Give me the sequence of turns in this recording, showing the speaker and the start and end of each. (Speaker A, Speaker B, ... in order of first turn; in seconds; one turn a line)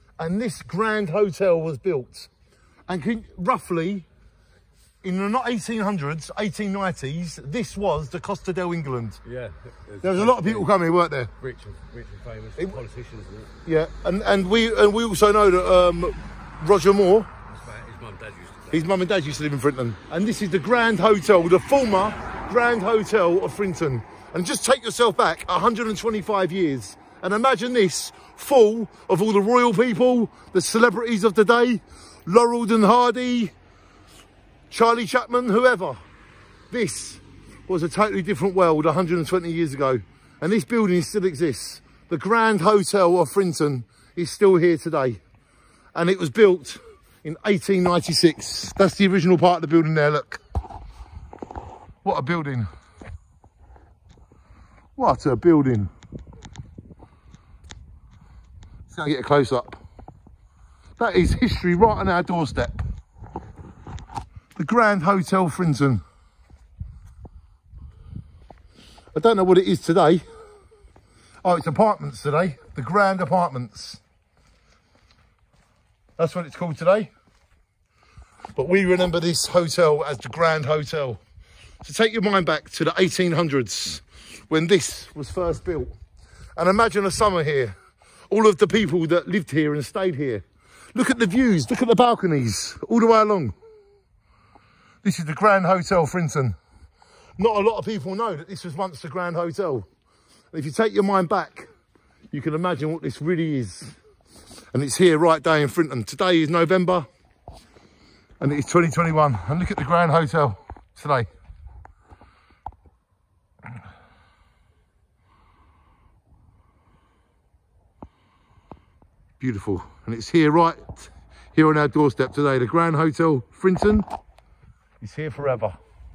Speaker A: 0.2-2.3
Speaker A: 2.9-4.0
Speaker A: 5.0-9.2
Speaker B: 9.2-10.7
Speaker A: 10.0-11.3
Speaker B: 11.4-13.5
Speaker A: 13.6-17.3
Speaker B: 17.5-18.8
Speaker A: 18.7-33.5
Speaker A: 34.7-36.0
Speaker A: 36.7-45.2
Speaker A: 45.9-50.4
Speaker A: 52.0-52.7
Speaker A: 55.0-55.9
Speaker A: 58.9-59.8
Speaker A: 61.0-62.8
Speaker A: 64.5-66.0
Speaker A: 69.1-70.2
Speaker A: 71.4-74.0
Speaker A: 76.2-77.1
Speaker A: 78.5-81.2
Speaker A: 81.8-85.9
Speaker A: 86.5-87.7
Speaker A: 88.3-93.5
Speaker A: 95.0-96.5
Speaker A: 97.4-99.9
Speaker A: 100.5-101.7
Speaker A: 102.3-104.0
Speaker A: 104.7-107.1
Speaker A: 108.4-111.3
Speaker A: 119.4-124.1
Speaker A: 125.0-125.8